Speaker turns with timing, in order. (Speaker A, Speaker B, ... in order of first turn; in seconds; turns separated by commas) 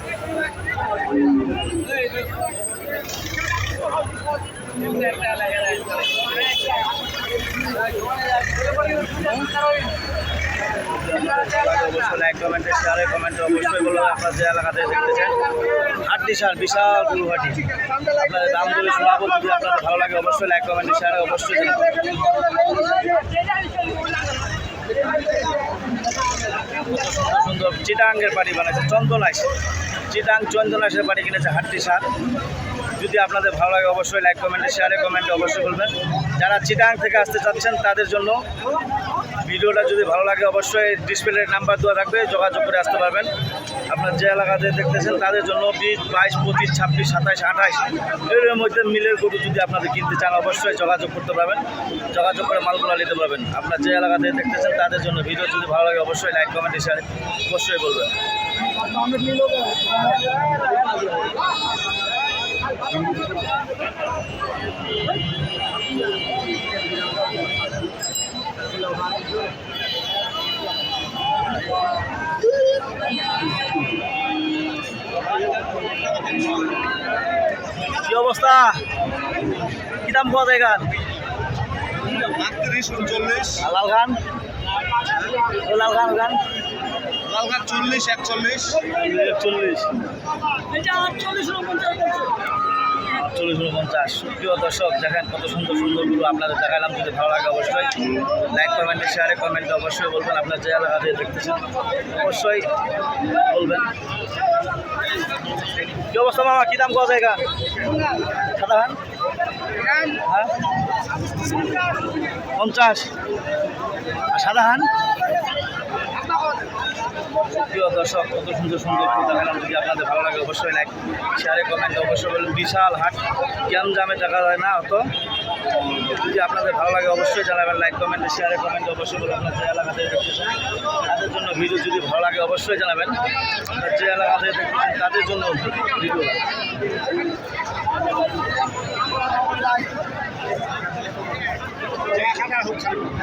Speaker A: 10.9-15.4, Speaker A: 16.0-22.1, Speaker A: 26.8-29.5, Speaker A: 30.1-32.1, Speaker A: 33.0-38.4, Speaker A: 39.4-43.3, Speaker A: 43.9-58.1, Speaker A: 77.9-78.8, Speaker A: 80.0-80.9, Speaker B: 82.2-83.6, Speaker A: 83.6-84.2, Speaker A: 85.5-86.4, Speaker B: 87.2-88.8, Speaker A: 88.9-90.0, Speaker A: 91.0-92.2, Speaker A: 93.1-102.7, Speaker A: 103.5-103.9, Speaker A: 106.1-107.5, Speaker A: 108.5-109.0, Speaker A: 110.1-110.5, Speaker A: 112.5-113.1, Speaker A: 114.3-114.9, Speaker A: 117.5-125.1, Speaker A: 126.1-136.4, Speaker B: 142.4-142.9